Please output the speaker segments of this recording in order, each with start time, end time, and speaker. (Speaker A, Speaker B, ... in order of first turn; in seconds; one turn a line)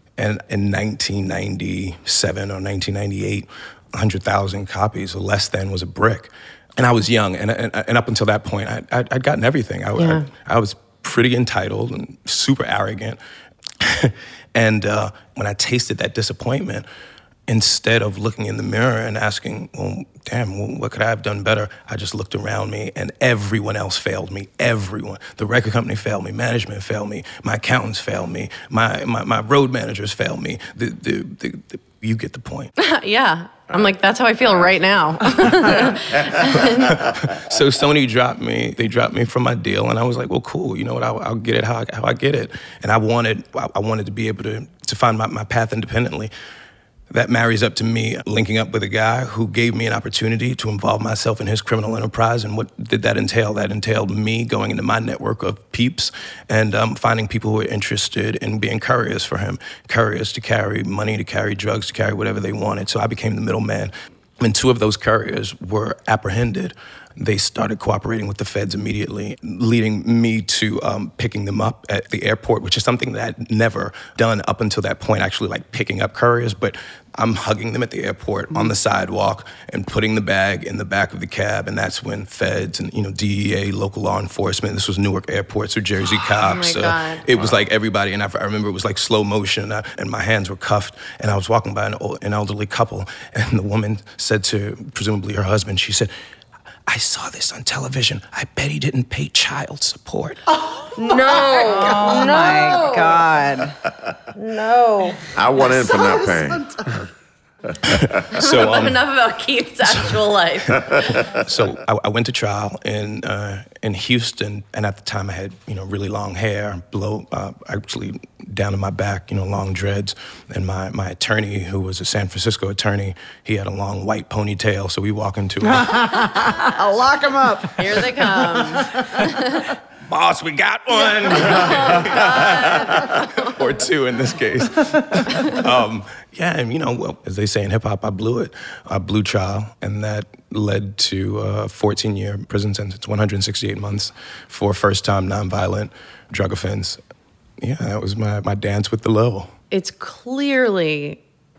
Speaker A: 0.2-13.2
Speaker B: 9.9-10.3
Speaker A: 13.8-16.8
Speaker A: 17.5-32.7
Speaker B: 32.8-37.1
Speaker A: 35.5-35.9
Speaker A: 36.5-46.3
Speaker A: 47.1-96.1
Speaker B: 86.2-87.2
Speaker A: 96.9-100.4
Speaker C: 100.7-102.1
Speaker B: 100.9-103.2
Speaker D: 101.4-103.8
Speaker B: 104.3-105.2
Speaker E: 105.3-106.7
Speaker C: 105.6-107.0
Speaker A: 107.8-109.0
Speaker E: 107.8-108.3
Speaker B: 108.3-111.1
Speaker A: 111.2-126.5
Speaker C: 125.7-129.1
Speaker B: 127.8-129.7
Speaker A: 130.1-147.0
Speaker B: 131.5-133.1
Speaker A: 147.6-149.5
Speaker B: 149.7-151.2